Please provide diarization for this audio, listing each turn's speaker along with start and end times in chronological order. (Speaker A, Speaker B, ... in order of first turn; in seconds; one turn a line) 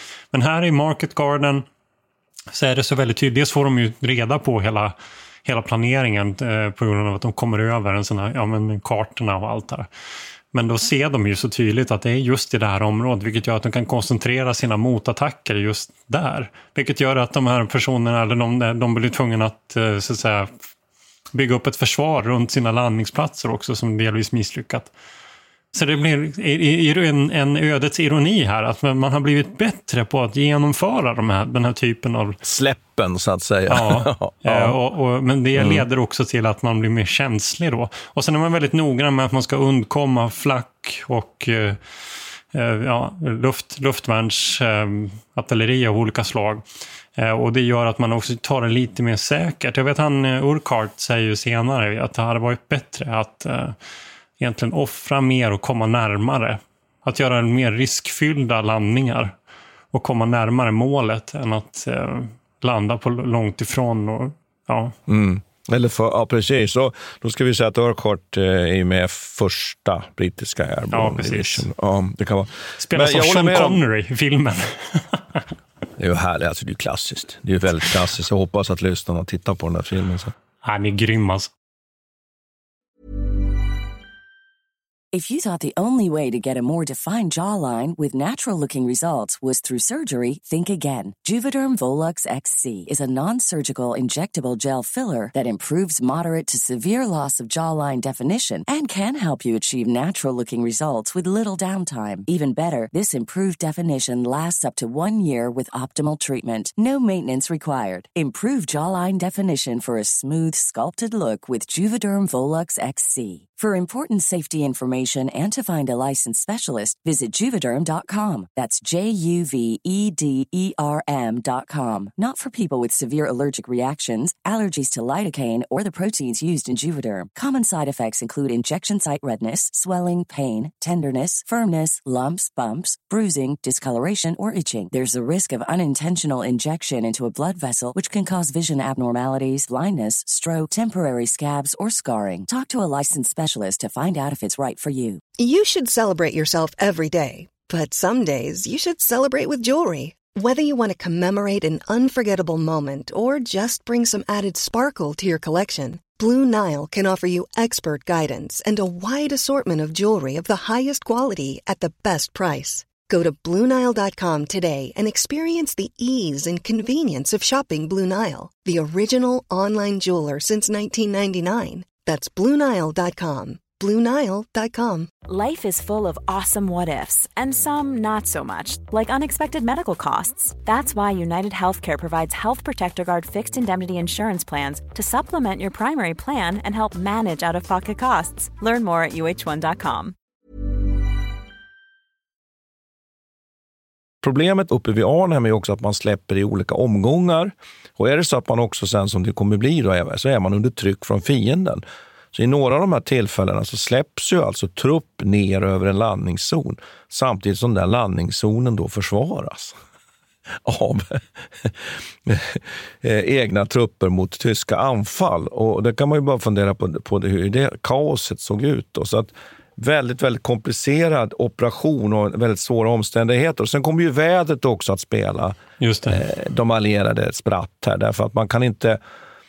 Speaker A: 0.3-1.6
Speaker A: 2.5-9.9
Speaker A: 10.5-20.5
Speaker A: 21.3-24.9
Speaker A: 25.7-32.4
Speaker B: 32.4-34.8
Speaker A: 33.7-41.8
Speaker B: 35.5-35.9
Speaker A: 42.5-46.6
Speaker A: 47.2-53.8
Speaker A: 54.4-59.4
Speaker A: 59.9-65.0
Speaker B: 65.1-73.8
Speaker A: 70.9-71.7
Speaker A: 72.8-75.5
Speaker B: 76.0-80.3
Speaker A: 80.6-81.5
Speaker C: 85.1-145.2
Speaker D: 145.4-175.1
Speaker E: 175.3-190.2
Speaker B: 194.2-209.8
Speaker B: 210.6-229.0
Speaker A: 225.8-226.2